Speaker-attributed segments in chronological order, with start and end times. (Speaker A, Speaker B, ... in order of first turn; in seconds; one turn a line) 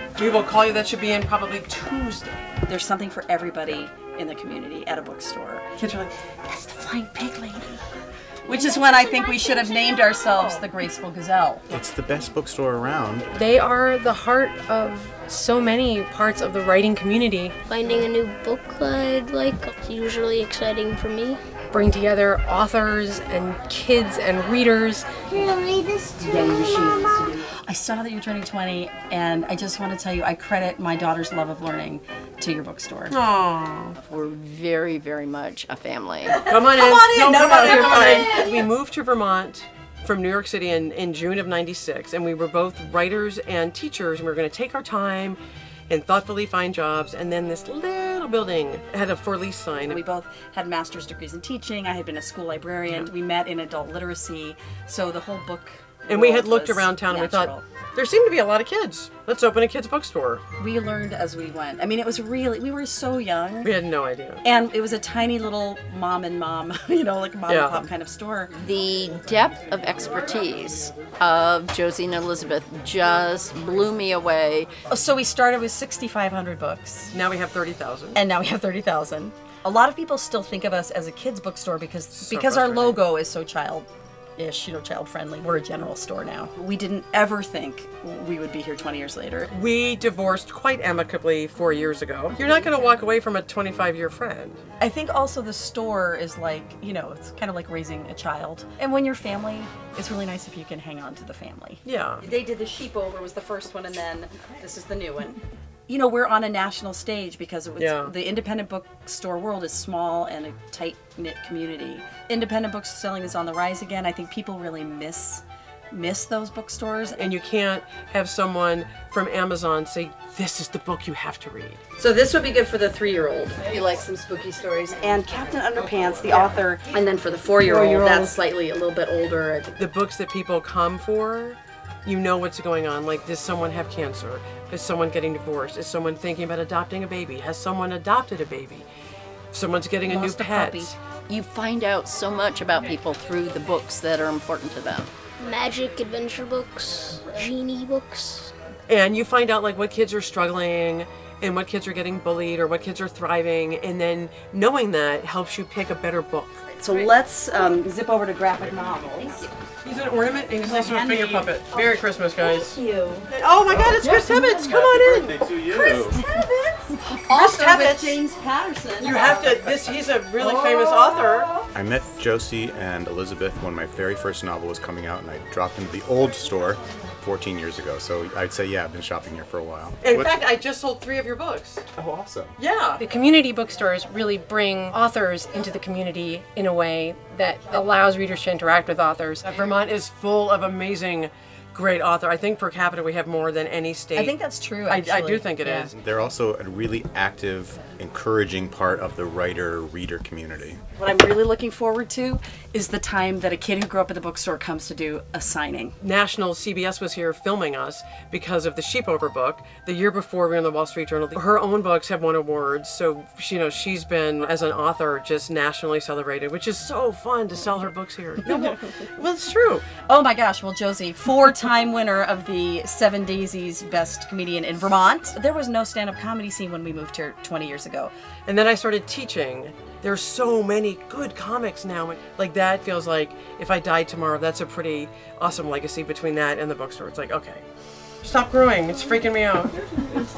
Speaker A: 0.2-2.5
Speaker B: 2.6-5.7
Speaker A: 5.8-7.3
Speaker B: 6.5-7.7
Speaker B: 8.5-11.7
Speaker C: 11.7-13.3
Speaker D: 13.3-17.6
Speaker E: 17.7-21.4
Speaker D: 21.7-25.1
Speaker B: 27.4-33.2
Speaker A: 33.1-34.0
Speaker F: 34.0-36.4
Speaker A: 36.5-50.0
Speaker B: 36.5-38.6
Speaker B: 49.9-57.7
Speaker A: 56.1-60.4
Speaker B: 60.6-63.7
Speaker A: 63.6-64.4
Speaker B: 64.4-68.5
Speaker A: 67.5-67.9
Speaker F: 68.6-74.7
Speaker B: 74.9-77.2
Speaker A: 77.1-78.2
Speaker B: 78.1-89.5
Speaker A: 82.1-83.0
Speaker A: 89.5-94.6
Speaker B: 94.8-117.3
Speaker A: 101.8-102.2
Speaker A: 107.8-108.1
Speaker A: 117.2-121.8
Speaker B: 122.0-129.8
Speaker A: 129.8-138.9
Speaker A: 139.5-141.0
Speaker B: 140.1-140.9
Speaker F: 141.3-145.1
Speaker E: 145.4-148.5
Speaker A: 148.9-156.7
Speaker B: 156.8-159.5
Speaker A: 159.8-165.6
Speaker B: 160.6-161.6
Speaker C: 164.6-166.2
Speaker B: 165.7-169.6
Speaker A: 167.3-168.2
Speaker A: 169.0-171.5
Speaker C: 171.7-180.4
Speaker A: 180.0-181.8
Speaker C: 181.9-182.5
Speaker A: 182.6-183.0
Speaker D: 183.0-189.5
Speaker A: 189.4-195.9
Speaker B: 194.1-195.9
Speaker C: 195.9-200.8
Speaker B: 201.0-206.0
Speaker A: 206.0-219.9
Speaker B: 220.1-228.1
Speaker A: 228.5-237.7
Speaker A: 238.2-239.8